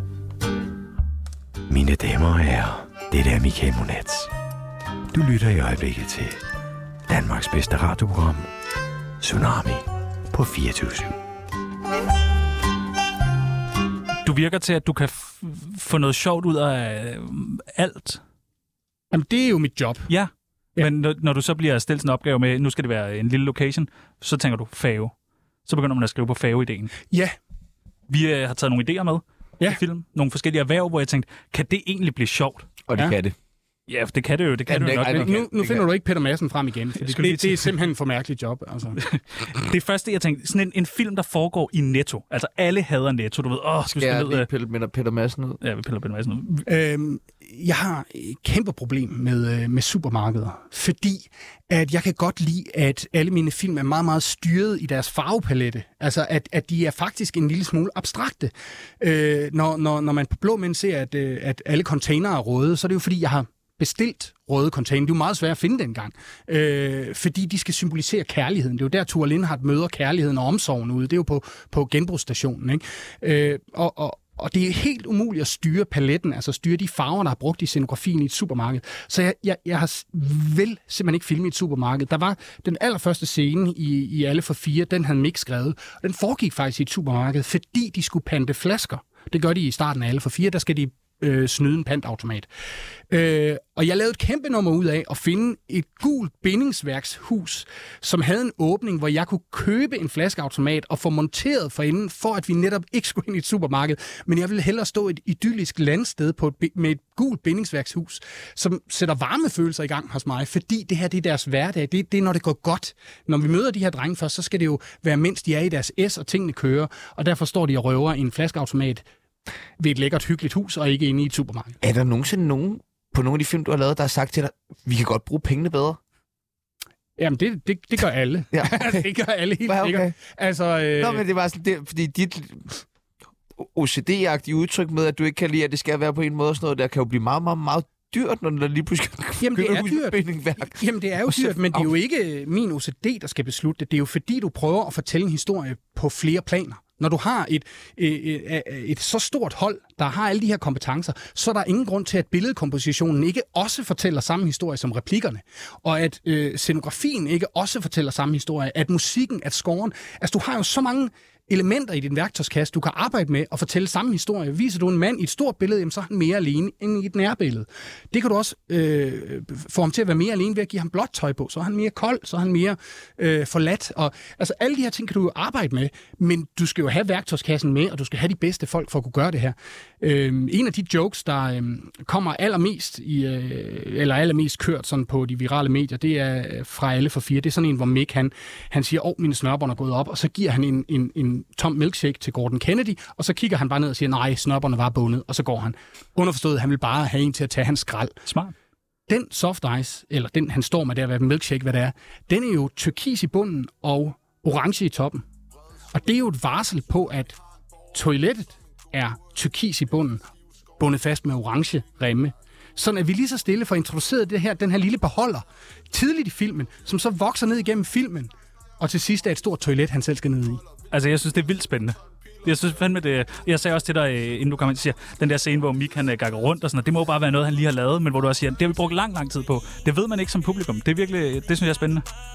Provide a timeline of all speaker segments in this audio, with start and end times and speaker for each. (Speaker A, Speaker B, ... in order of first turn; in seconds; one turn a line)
Speaker A: 1.7-4.3
Speaker A: 5.1-6.4
Speaker A: 7.1-8.5
Speaker A: 9.2-11.2
Speaker B: 14.2-18.2
Speaker C: 19.1-20.1
Speaker B: 20.1-25.1
Speaker B: 25.7-26.9
Speaker B: 28.1-32.7
Speaker D: 32.9-33.4
Speaker B: 33.9-35.5
Speaker D: 34.7-35.8
Speaker C: 34.8-39.0
Speaker B: 37.0-37.8
Speaker B: 39.0-44.5
Speaker D: 43.9-45.6
Speaker B: 45.6-46.7
Speaker C: 46.7-92.5
Speaker C: 93.1-119.0
Speaker C: 119.8-121.8
Speaker D: 121.8-126.0
Speaker C: 127.2-131.2
Speaker D: 128.5-129.0
Speaker D: 129.7-130.1
Speaker D: 131.0-132.8
Speaker D: 133.6-141.9
Speaker C: 139.4-198.2
Speaker B: 198.3-198.5
Speaker C: 199.1-205.2
Speaker C: 205.9-207.4
Speaker C: 207.9-210.2
Speaker C: 210.8-220.6
Speaker B: 220.9-232.1